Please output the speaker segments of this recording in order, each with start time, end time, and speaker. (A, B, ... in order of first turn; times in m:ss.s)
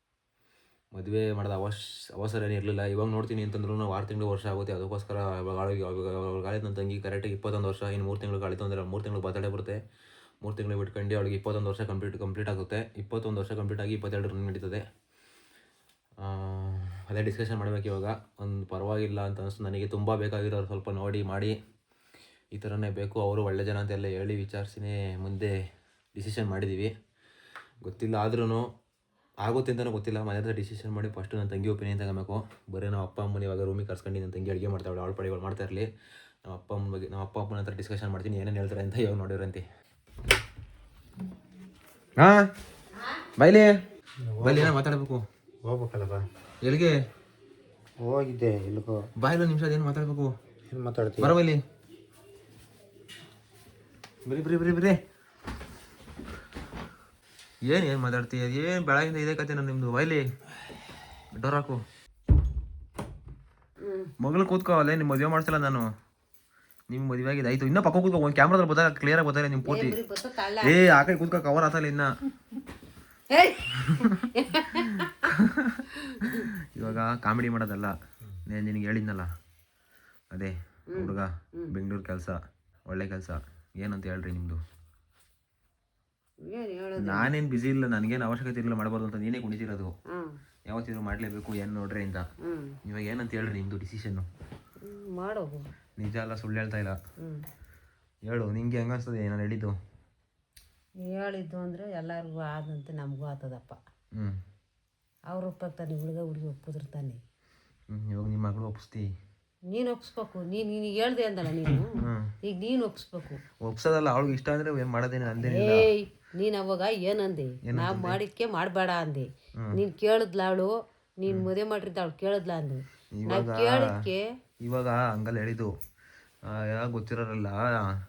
0:00.9-0:09.8 A
0:10.4-0:14.8 A
0:16.2-0:21.5 A
0:22.5-0:25.5 A
0:26.1-0:26.9 A
0:27.8-0:28.6 A
0:29.4-0:35.9 A
0:36.4-0:39.6 A
0:42.2-0:42.4 A
0:43.4-0:43.7 A
0:44.2-0:44.7 B
0:44.4-0:45.2 A
0:45.6-0:46.2 B
0:46.6-0:46.9 A
0:48.0-0:49.0 B
0:49.2-0:50.3 A
0:50.7-0:51.3 B
0:51.2-0:51.6 A
0:54.2-0:55.0 A
0:57.6-1:00.2 A
1:01.3-1:01.8 A
1:03.8-1:04.1 C
1:04.2-1:05.9 A
1:06.9-1:10.0 A
1:09.6-1:10.8 C
1:10.6-1:12.1 A
1:13.3-1:15.3 C
1:15.4-1:15.8 A
1:16.2-1:16.9 C
1:16.4-1:17.9 A
1:18.5-1:19.3 A
1:20.3-1:22.4 A
1:20.9-1:21.7 C
1:22.9-1:24.6 A
1:26.5-1:27.3 C
1:27.0-1:29.9 A
1:30.1-1:30.4 C
1:30.7-1:32.3 A
1:32.4-1:32.8 C
1:32.8-1:34.3 A
1:34.8-1:35.7 C
1:36.0-1:37.0 A
1:38.3-1:39.7 A
1:41.0-1:43.8 C
1:45.3-1:47.2 C
1:47.9-1:49.1 A
1:49.7-1:53.4 C
1:52.0-1:52.3 A
1:53.6-1:55.9 A
1:55.3-2:00.7 C
1:57.6-1:58.2 A
2:01.2-2:04.2 C
2:03.2-2:03.9 A
2:04.6-2:05.7 A
2:06.5-2:07.6 A